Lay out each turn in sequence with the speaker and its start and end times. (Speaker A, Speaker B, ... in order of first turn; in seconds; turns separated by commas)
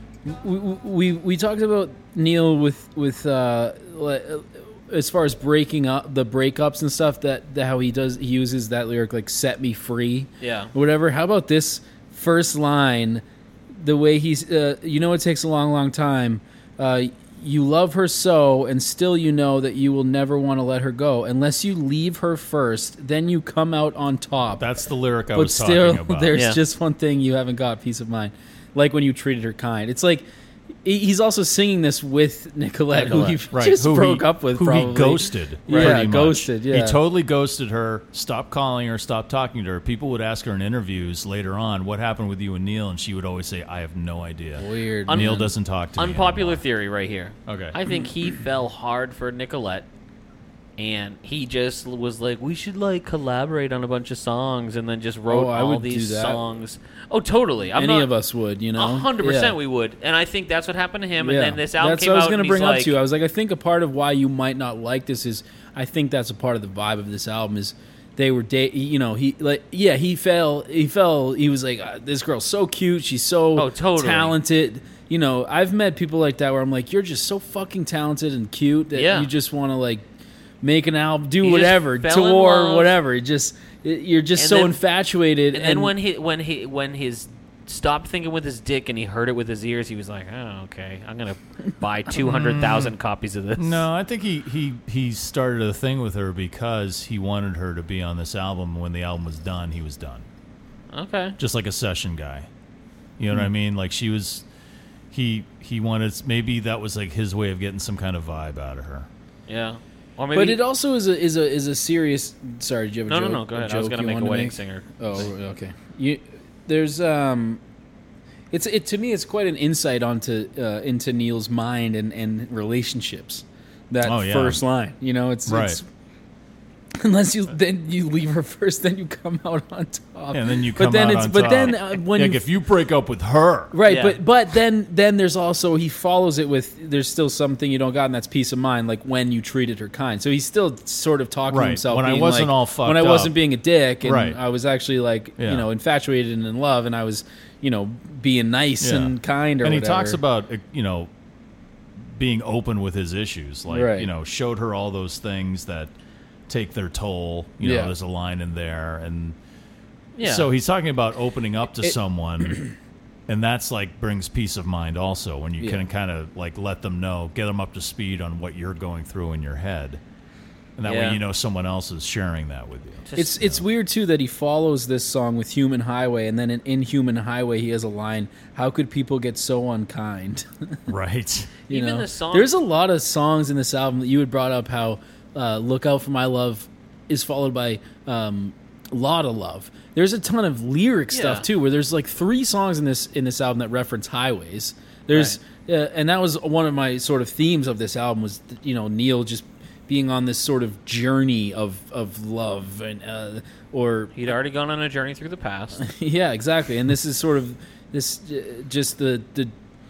Speaker A: 0.2-24.7, Speaker B: 10.4-10.7, Speaker C: 24.6-26.4, Speaker A: 25.3-30.2, Speaker A: 30.8-37.0, Speaker B: 33.1-33.4, Speaker C: 33.5-46.6, Speaker B: 35.7-36.0, Speaker A: 44.6-45.5, Speaker B: 45.1-49.9, Speaker C: 47.5-47.8, Speaker B: 50.8-58.1, Speaker A: 55.3-56.4, Speaker A: 57.7-59.5, Speaker B: 58.8-63.0, Speaker A: 61.2-80.0, Speaker B: 73.5-74.3, Speaker B: 78.9-79.3, Speaker A: 80.6-85.9, Speaker B: 81.4-83.0, Speaker B: 84.3-84.8, Speaker B: 85.5-93.8, Speaker C: 92.2-92.9, Speaker C: 93.6-100.2, Speaker B: 100.9-101.4, Speaker C: 101.4-102.5, Speaker C: 103.2-104.4, Speaker C: 105.1-109.1, Speaker B: 109.5-110.6, Speaker A: 110.3-117.6, Speaker B: 113.1-115.2, Speaker A: 118.5-125.8, Speaker C: 124.0-124.6, Speaker C: 125.5-125.8, Speaker A: 127.0-132.4, Speaker C: 130.3-133.8, Speaker A: 133.7-150.2, Speaker B: 133.9-134.2, Speaker C: 141.5-143.4, Speaker C: 144.0-144.4, Speaker C: 145.4-145.7, Speaker C: 148.8-151.1, Speaker C: 152.1-155.9, Speaker A: 153.7-154.1, Speaker C: 156.5-159.3, Speaker A: 157.6-157.9, Speaker B: 160.2-160.5, Speaker C: 160.2-162.6, Speaker C: 163.3-170.0, Speaker A: 165.6-165.8, Speaker C: 170.8-173.6, Speaker B: 170.8-171.2, Speaker B: 173.1-173.4, Speaker A: 173.2-180.8, Speaker C: 180.9-181.5, Speaker B: 181.7-182.5, Speaker A: 181.7-204.1, Speaker B: 191.1-191.5, Speaker B: 195.1-195.4, Speaker B: 204.2-205.8, Speaker A: 205.8-209.5